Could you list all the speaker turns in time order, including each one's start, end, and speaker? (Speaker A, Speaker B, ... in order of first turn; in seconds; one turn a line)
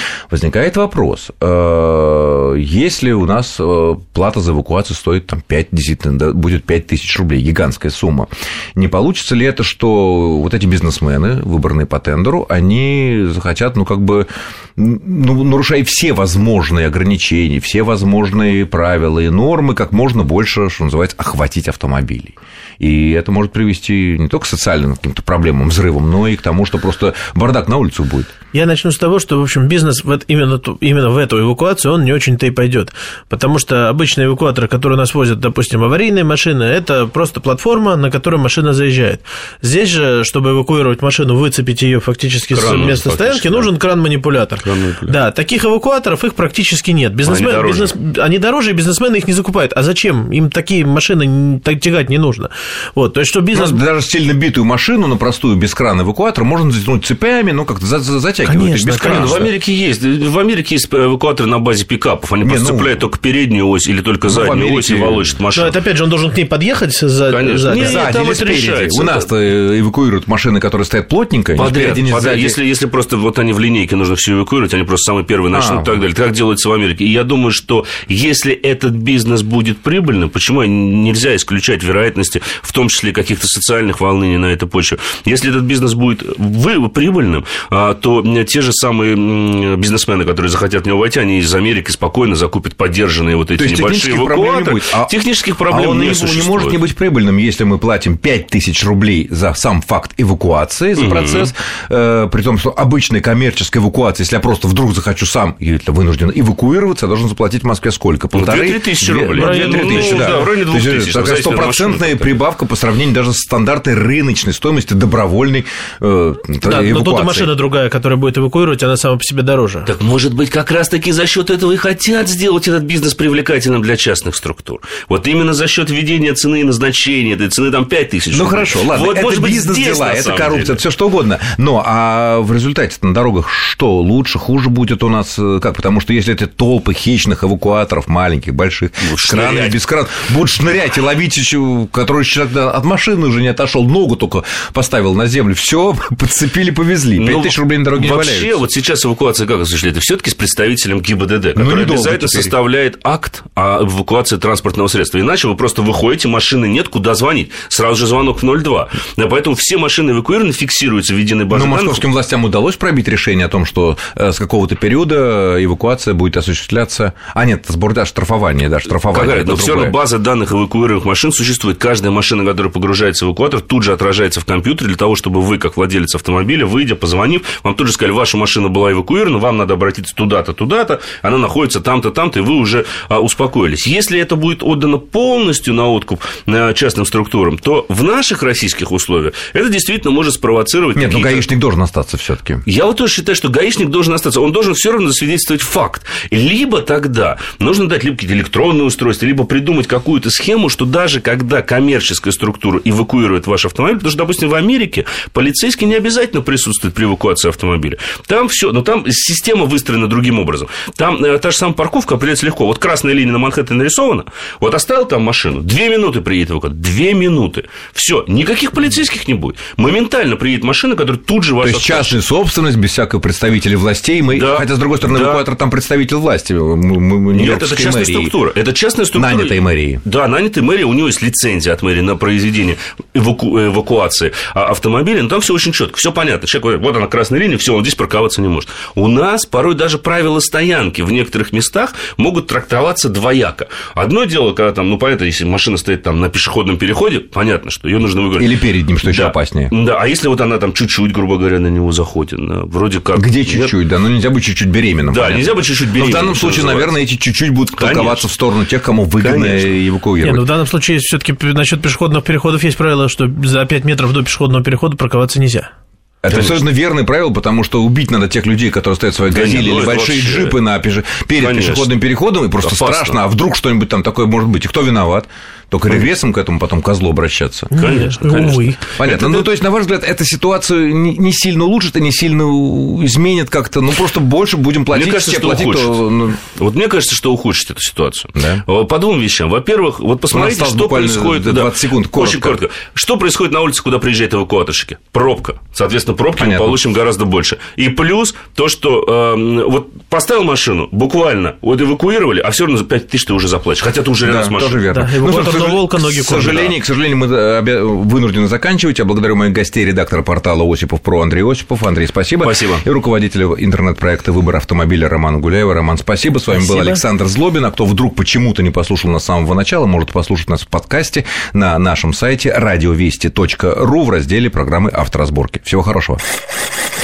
Speaker A: 0.3-28.3
Speaker B: 28.5-53.8
Speaker C: 42.5-43.7
Speaker C: 44.6-45.2
Speaker C: 47.2-47.9
Speaker A: 53.5-59.5
Speaker B: 58.5-59.4
Speaker C: 59.0-65.8
Speaker A: 62.4-63.0
Speaker A: 64.2-65.3
Speaker B: 65.5-68.1
Speaker C: 67.3-69.3
Speaker A: 67.8-72.6
Speaker C: 71.6-96.8
Speaker A: 75.5-76.0
Speaker A: 93.6-95.1
Speaker A: 95.7-117.5
Speaker C: 101.0-101.5
Speaker C: 108.3-112.4
Speaker B: 109.3-110.5
Speaker B: 116.6-119.9
Speaker C: 119.9-130.8
Speaker A: 128.3-148.6
Speaker C: 139.0-139.8
Speaker C: 147.2-162.1
Speaker A: 151.6-152.5
Speaker A: 161.5-170.0
Speaker C: 169.1-191.5
Speaker A: 190.9-192.6
Speaker C: 192.7-222.2
Speaker A: 221.6-228.3
Speaker C: 224.3-225.4
Speaker C: 227.3-253.7
Speaker A: 229.2-230.0
Speaker A: 248.4-249.7
Speaker A: 253.2-260.4
Speaker C: 255.1-257.0
Speaker C: 257.8-258.3
Speaker C: 259.2-259.8
Speaker B: 260.2-265.7
Speaker A: 266.2-277.8
Speaker C: 266.3-266.6
Speaker C: 269.3-270.6
Speaker C: 271.4-272.0
Speaker C: 272.6-273.2
Speaker B: 277.7-278.8
Speaker C: 277.8-279.5
Speaker A: 278.4-286.4
Speaker C: 284.9-286.0
Speaker C: 286.6-304.8
Speaker A: 288.4-288.6
Speaker A: 290.3-292.6
Speaker A: 296.4-296.8
Speaker A: 304.2-326.2
Speaker B: 304.9-306.8
Speaker C: 312.4-312.8
Speaker B: 316.5-317.0